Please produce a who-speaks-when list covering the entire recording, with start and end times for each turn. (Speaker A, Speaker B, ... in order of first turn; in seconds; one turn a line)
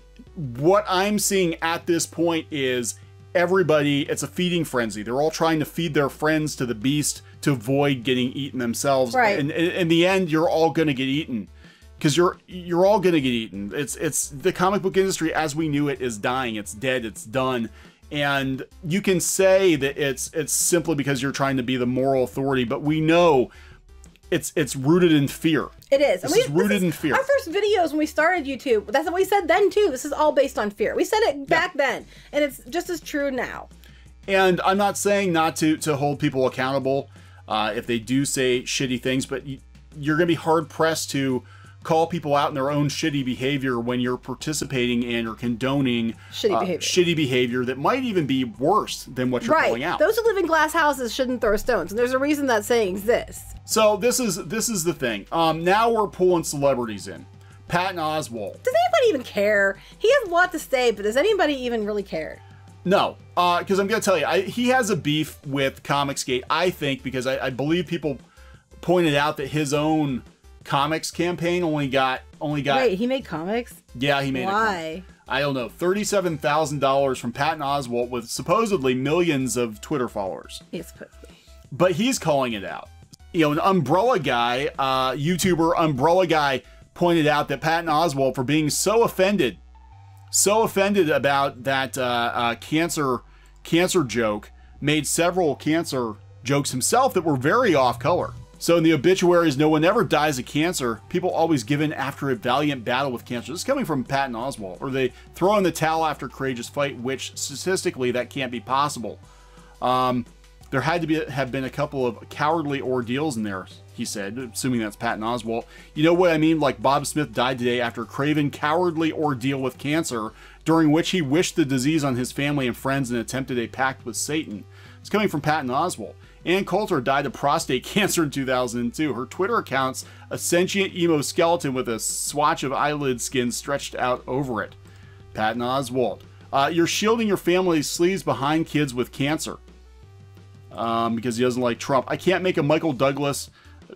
Speaker A: 0.3-23.5
Speaker B: 9.1-9.4
Speaker A: 24.3-27.3
Speaker B: 25.9-33.7
Speaker A: 34.3-50.0
Speaker B: 46.3-47.0
Speaker B: 49.4-53.5
Speaker A: 53.7-58.6
Speaker B: 58.6-62.4
Speaker A: 62.9-68.2
Speaker A: 68.8-72.9
Speaker B: 72.7-73.8
Speaker A: 74.0-80.6
Speaker B: 74.3-75.1
Speaker B: 80.7-81.3
Speaker A: 81.7-89.6
Speaker A: 90.3-109.2
Speaker A: 109.8-134.8
Speaker A: 135.3-139.6
Speaker A: 140.7-143.5